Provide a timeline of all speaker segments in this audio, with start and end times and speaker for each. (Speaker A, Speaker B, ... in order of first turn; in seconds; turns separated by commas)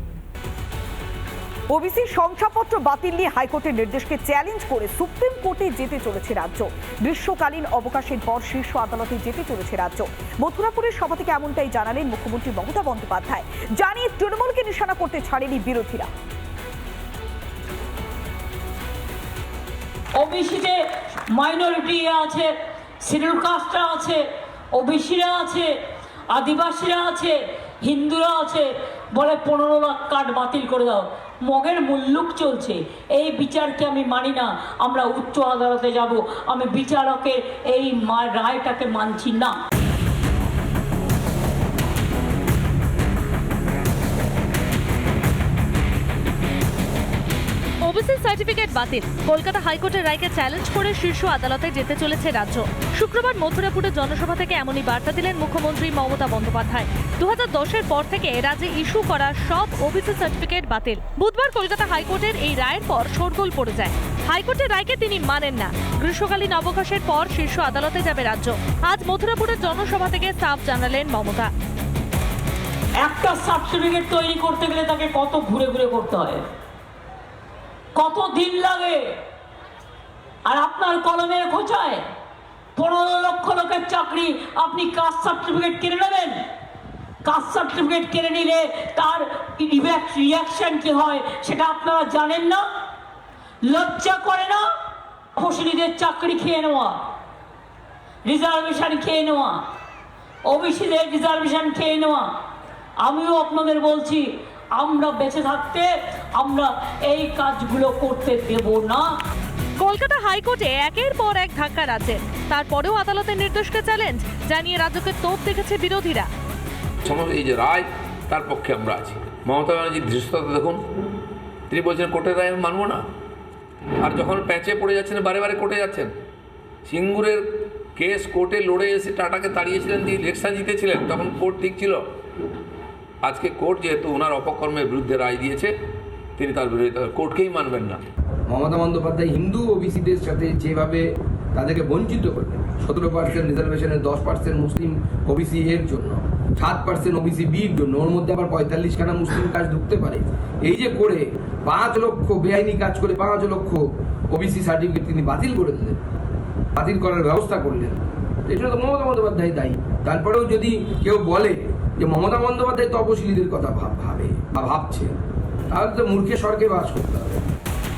Speaker A: 1.7-16.1, Speaker B: 20.2-20.8, Speaker B: 21.3-22.5, Speaker B: 23.0-24.2, Speaker B: 24.7-25.7, Speaker B: 26.3-39.5, Speaker C: 47.8-71.5, Speaker B: 73.0-76.4, Speaker B: 77.9-79.0, Speaker B: 80.5-82.0, Speaker B: 82.8-86.4, Speaker B: 87.2-92.6, Speaker B: 93.6-94.6, Speaker B: 95.4-97.0, Speaker B: 98.2-99.6, Speaker B: 100.5-102.3, Speaker B: 103.0-104.2, Speaker B: 104.8-105.9, Speaker B: 106.4-109.1, Speaker C: 109.8-116.3, Speaker D: 117.0-120.8, Speaker D: 121.7-123.0, Speaker D: 124.0-126.1, Speaker D: 126.8-127.4, Speaker D: 128.0-132.0, Speaker D: 133.2-135.7, Speaker D: 136.4-138.0, Speaker E: 138.5-141.0, Speaker E: 141.5-156.0, Speaker E: 156.8-165.1, Speaker E: 165.7-167.4